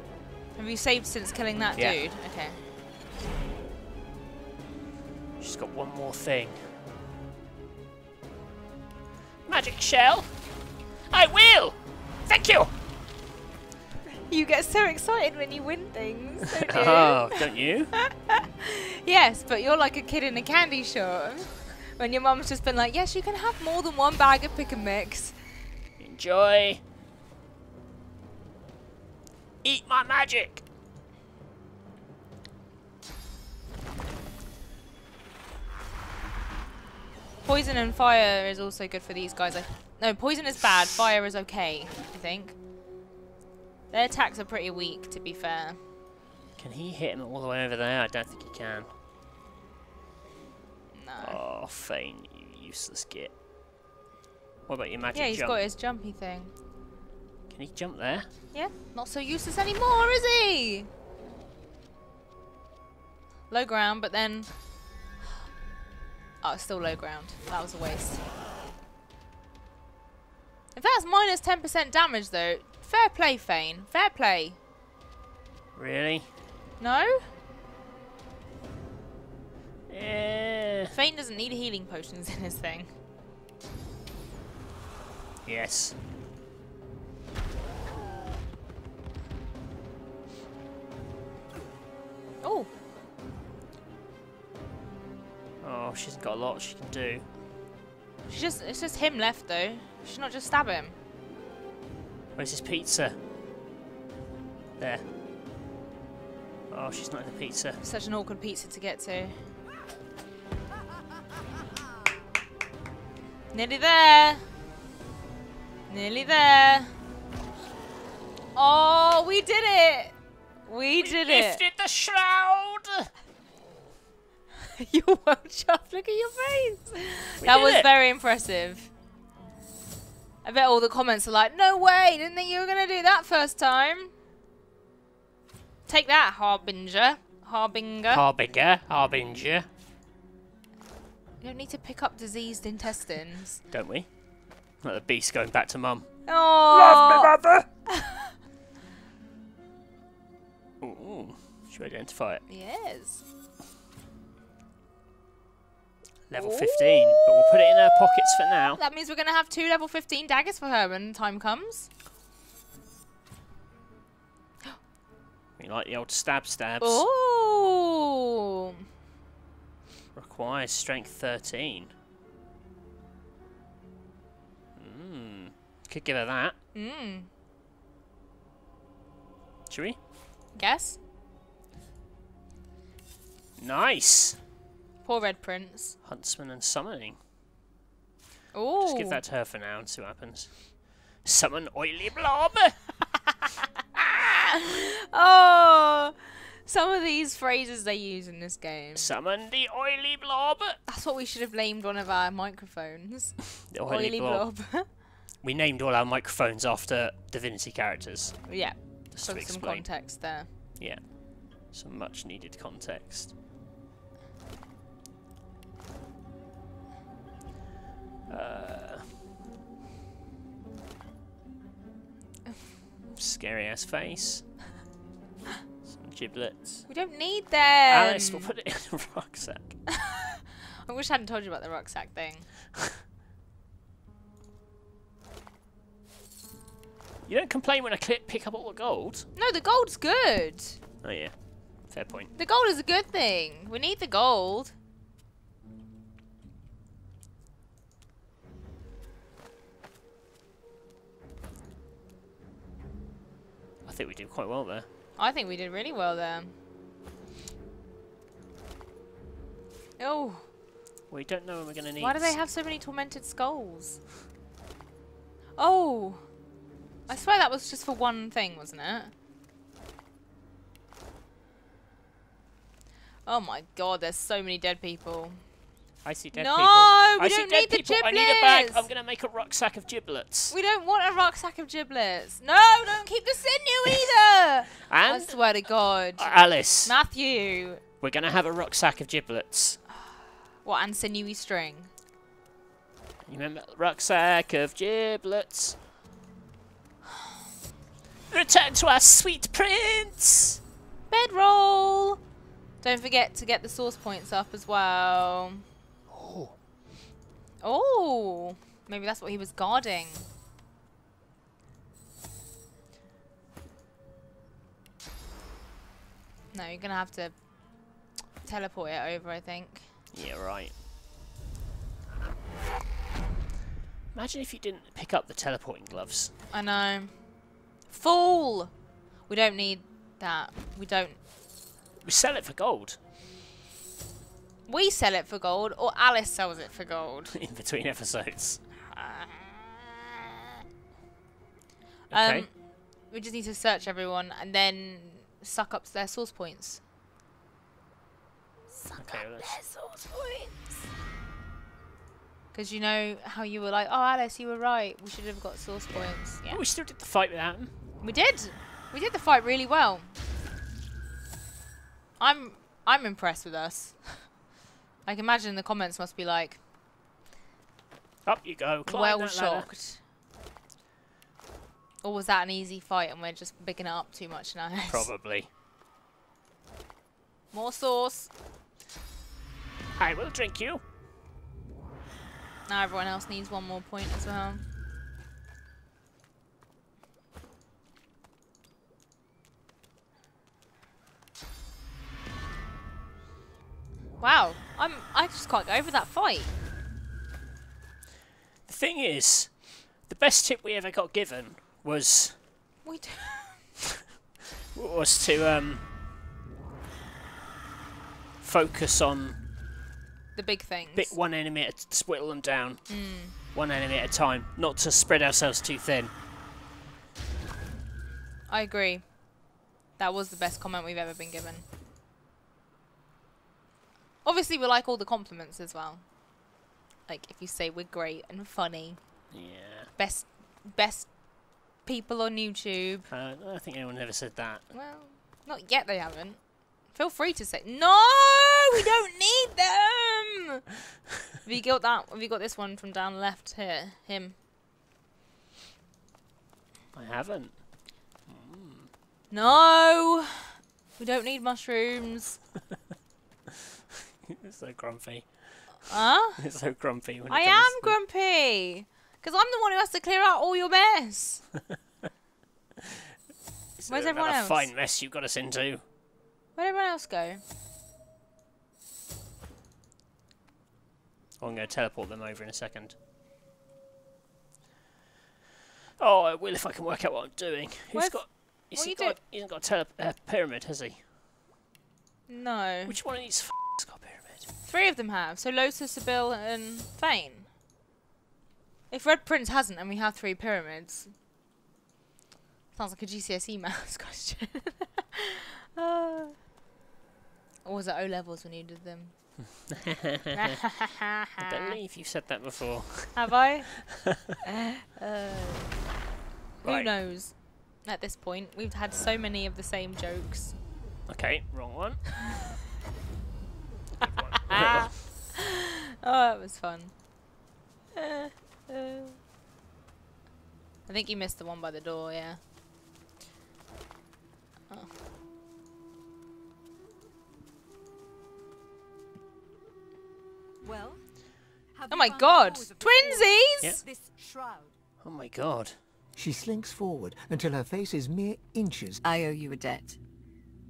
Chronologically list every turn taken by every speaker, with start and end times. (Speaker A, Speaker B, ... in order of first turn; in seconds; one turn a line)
Speaker A: 0.6-2.6
Speaker B: 5.4-6.6
Speaker B: 9.5-10.4
Speaker B: 11.1-12.7
Speaker A: 14.1-17.4
Speaker B: 16.6-17.9
Speaker A: 17.9-25.4
Speaker B: 26.0-26.8
Speaker B: 29.6-30.6
Speaker A: 37.4-42.6
Speaker A: 43.9-45.8
Speaker B: 46.6-48.9
Speaker A: 50.9-51.4
Speaker B: 51.2-53.3
Speaker B: 54.7-55.6
Speaker A: 55.1-56.5
Speaker B: 57.5-58.3
Speaker A: 58.5-60.9
Speaker A: 63.5-64.5
Speaker A: 66.4-68.2
Speaker A: 70.7-74.6
Speaker B: 75.8-76.3
Speaker A: 76.8-77.2
Speaker B: 79.9-80.9
Speaker A: 80.9-82.9
Speaker B: 85.4-86.0
Speaker A: 92.4-92.7
Speaker B: 95.6-97.2
Speaker A: 98.3-101.0
Speaker B: 102.3-103.2
Speaker B: 104.8-105.0
Speaker B: 106.7-107.8
Speaker A: 107.8-109.4
Speaker A: 113.5-114.4
Speaker A: 115.9-116.9
Speaker A: 118.5-121.6
Speaker B: 121.0-123.1
Speaker A: 124.8-128.9
Speaker B: 127.4-127.9
Speaker A: 130.4-134.1
Speaker A: 135.9-138.2
Speaker B: 138.1-139.7
Speaker A: 141.4-143.6
Speaker B: 143.7-144.1
Speaker B: 144.8-147.7
Speaker A: 146.3-147.3
Speaker A: 147.9-148.2
Speaker B: 150.8-152.4
Speaker A: 152.5-153.2
Speaker B: 156.3-158.8
Speaker A: 156.3-161.9
Speaker B: 165.6-167.0
Speaker A: 166.8-168.8
Speaker B: 170.1-171.9
Speaker B: 174.8-176.5
Speaker A: 176.7-177.3
Speaker B: 179.7-180.0
Speaker A: 180.5-181.0
Speaker B: 183.6-184.4
Speaker A: 185.0-185.9
Speaker B: 186.0-187.2
Speaker A: 188.5-189.2
Speaker B: 188.8-192.8
Speaker A: 194.3-199.1
Speaker B: 198.9-200.8
Speaker A: 200.9-204.9
Speaker B: 203.7-204.5
Speaker B: 205.4-208.6
Speaker A: 208.5-210.5
Speaker B: 209.1-213.3
Speaker B: 218.3-219.1
Speaker B: 223.1-224.5
Speaker B: 225.8-226.9
Speaker A: 226.9-228.5
Speaker B: 227.9-229.8
Speaker A: 229.9-232.5
Speaker B: 237.3-239.3
Speaker A: 239.3-240.8
Speaker B: 241.0-241.3
Speaker B: 241.8-242.3
Speaker A: 242.3-244.7
Speaker B: 253.8-254.9
Speaker A: 255.2-256.5
Speaker A: 260.0-260.4
Speaker B: 261.1-262.4
Speaker A: 262.0-264.0
Speaker A: 265.6-266.2
Speaker A: 267.1-269.1
Speaker A: 273.2-275.4
Speaker B: 276.0-280.5
Speaker A: 276.3-278.9
Speaker A: 280.5-287.8
Speaker B: 284.9-285.4
Speaker B: 286.2-286.9
Speaker B: 288.0-289.8
Speaker A: 290.6-291.9
Speaker B: 293.2-295.8
Speaker B: 298.3-300.6
Speaker A: 301.1-302.2
Speaker A: 302.8-305.6
Speaker B: 306.1-306.5
Speaker A: 307.6-310.3
Speaker A: 316.5-317.4
Speaker A: 318.4-319.9
Speaker B: 320.1-320.7
Speaker B: 324.1-326.3
Speaker A: 326.5-327.2
Speaker A: 327.9-328.7
Speaker A: 329.3-331.2
Speaker B: 332.0-333.0
Speaker A: 334.7-337.4
Speaker B: 337.3-338.6
Speaker A: 338.9-339.7
Speaker A: 342.1-342.5
Speaker B: 342.1-342.5
Speaker A: 343.1-346.8
Speaker A: 348.7-350.7
Speaker B: 349.0-349.6
Speaker A: 352.5-356.6
Speaker B: 355.9-357.7
Speaker A: 358.0-360.1
Speaker A: 362.2-364.3
Speaker A: 365.1-366.6
Speaker B: 368.2-369.7
Speaker A: 368.9-370.0
Speaker A: 372.0-375.1
Speaker B: 374.9-375.5
Speaker A: 377.5-378.3
Speaker B: 380.0-380.8
Speaker A: 382.7-384.6
Speaker A: 394.2-396.5
Speaker B: 398.7-402.4
Speaker A: 402.8-403.6
Speaker B: 404.7-405.8
Speaker B: 408.4-409.4
Speaker A: 410.3-411.1
Speaker B: 410.9-416.1
Speaker A: 412.9-413.3
Speaker A: 418.5-419.1
Speaker A: 420.0-421.6
Speaker A: 424.2-426.0
Speaker A: 427.1-429.0
Speaker B: 429.3-429.9
Speaker A: 430.0-431.1
Speaker A: 431.8-433.1
Speaker B: 433.1-434.7
Speaker A: 434.7-440.6
Speaker A: 441.4-444.4
Speaker B: 446.9-447.6
Speaker B: 448.2-448.9
Speaker A: 449.3-452.4
Speaker B: 454.3-458.0
Speaker A: 455.9-456.4
Speaker A: 457.3-461.4
Speaker B: 463.8-465.8
Speaker A: 463.9-464.7
Speaker A: 466.6-467.4
Speaker B: 471.4-472.9
Speaker B: 476.0-481.0
Speaker A: 477.9-479.2
Speaker A: 482.3-482.9
Speaker B: 482.9-484.5
Speaker A: 484.6-487.5
Speaker A: 488.9-491.1
Speaker A: 492.7-496.4
Speaker A: 497.6-499.1
Speaker B: 499.7-500.5
Speaker A: 500.3-501.8
Speaker B: 501.4-504.1
Speaker A: 503.1-503.9
Speaker A: 504.4-505.7
Speaker B: 506.6-506.9
Speaker A: 506.6-510.5
Speaker B: 511.1-512.1
Speaker B: 514.0-515.0
Speaker A: 514.4-517.0
Speaker A: 518.0-519.1
Speaker A: 520.9-522.4
Speaker C: 530.6-531.0
Speaker C: 531.7-534.7
Speaker A: 531.9-533.7
Speaker B: 535.0-535.8
Speaker D: 536.1-539.0
Speaker C: 539.0-540.0